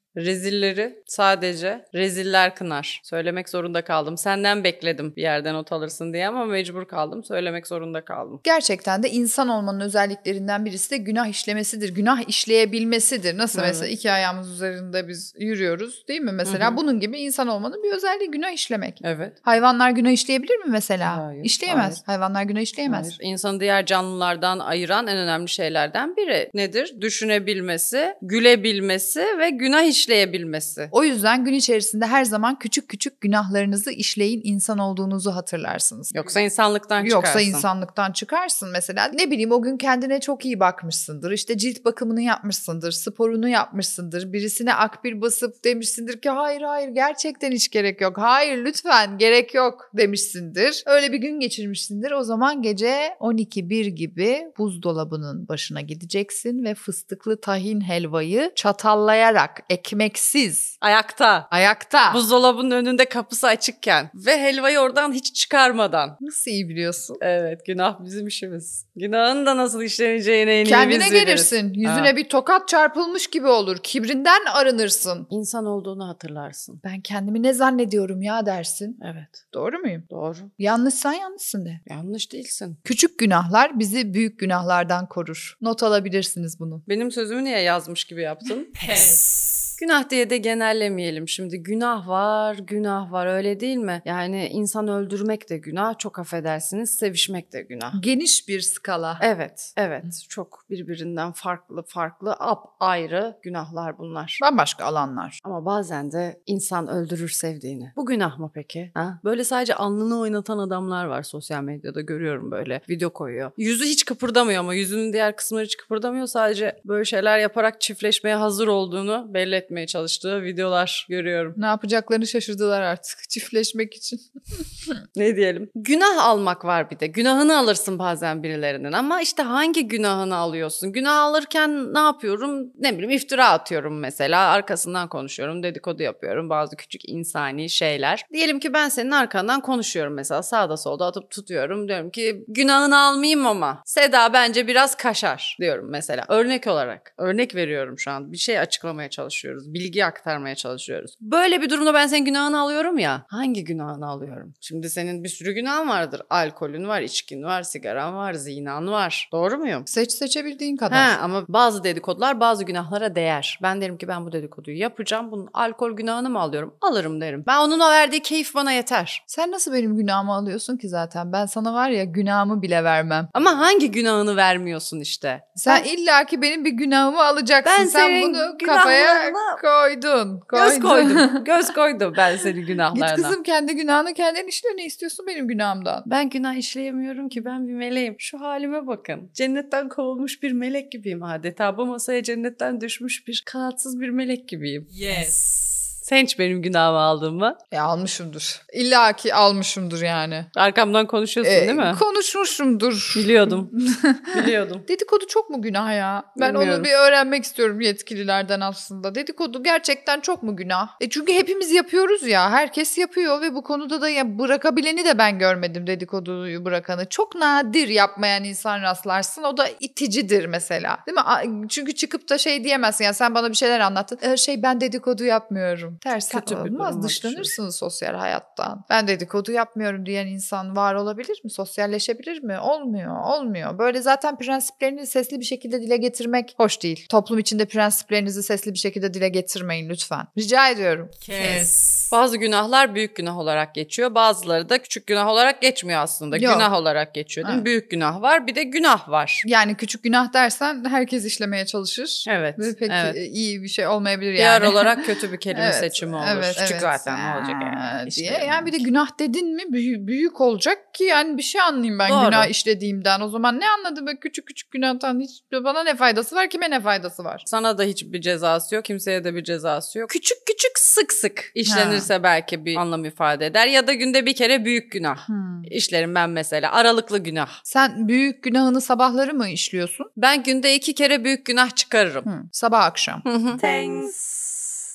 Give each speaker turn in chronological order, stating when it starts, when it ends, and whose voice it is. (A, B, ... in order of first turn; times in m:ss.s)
0:00.2-0:08.4 A
0:08.4-0:23.1 B
0:13.5-0:13.9 A
0:16.4-0:16.8 A
0:19.0-0:19.4 A
0:21.0-0:22.0 A
0:22.9-0:30.9 A
0:30.9-0:36.3 B
0:36.1-0:37.6 A
0:37.0-1:00.8 B
1:00.8-1:01.5 A
1:01.5-1:02.2 B
1:02.1-1:06.2 A
1:06.2-1:07.2 B
1:07.2-1:12.1 A
1:10.6-1:15.3 B
1:15.3-1:16.8 A
1:16.8-1:19.0 B
1:19.0-1:19.4 A
1:19.5-1:20.1 B
1:20.1-1:20.5 A
1:20.6-1:21.8 B
1:21.9-1:22.8 A
1:22.8-1:26.8 B
1:26.9-1:29.1 A
1:28.8-1:29.2 B
1:29.8-1:38.0 A
1:37.9-1:39.2 B
1:39.2-1:44.4 A
1:44.4-1:45.4 B
1:45.4-2:01.6 A
2:01.6-2:05.0 B
2:05.2-2:39.9 A
2:39.9-2:41.1 B
2:40.9-2:49.2 A
2:49.3-2:53.3 B
2:53.3-2:55.9 A
2:55.6-3:01.4 B
2:57.6-2:59.6 A
3:00.5-3:03.4 A
3:02.9-3:06.1 B
3:06.1-3:15.4 A
3:16.0-3:17.6 A
3:17.7-3:20.5 B
3:20.6-3:22.0 A
3:21.4-3:24.3 B
3:23.2-3:23.7 A
3:24.3-3:24.8 A
3:24.9-4:02.1 B
3:26.4-3:26.9 A
3:46.1-3:47.6 A
4:01.3-4:09.4 A
4:06.3-4:06.7 B
4:09.4-4:27.4 B
4:12.3-4:13.2 A
4:14.4-4:18.8 A
4:22.0-4:22.5 A
4:27.5-4:37.6 A
4:31.7-4:32.1 B
4:35.3-4:35.7 B
4:37.7-4:40.1 B
4:40.2-4:42.3 A
4:42.3-4:44.1 B
4:43.2-4:44.1 A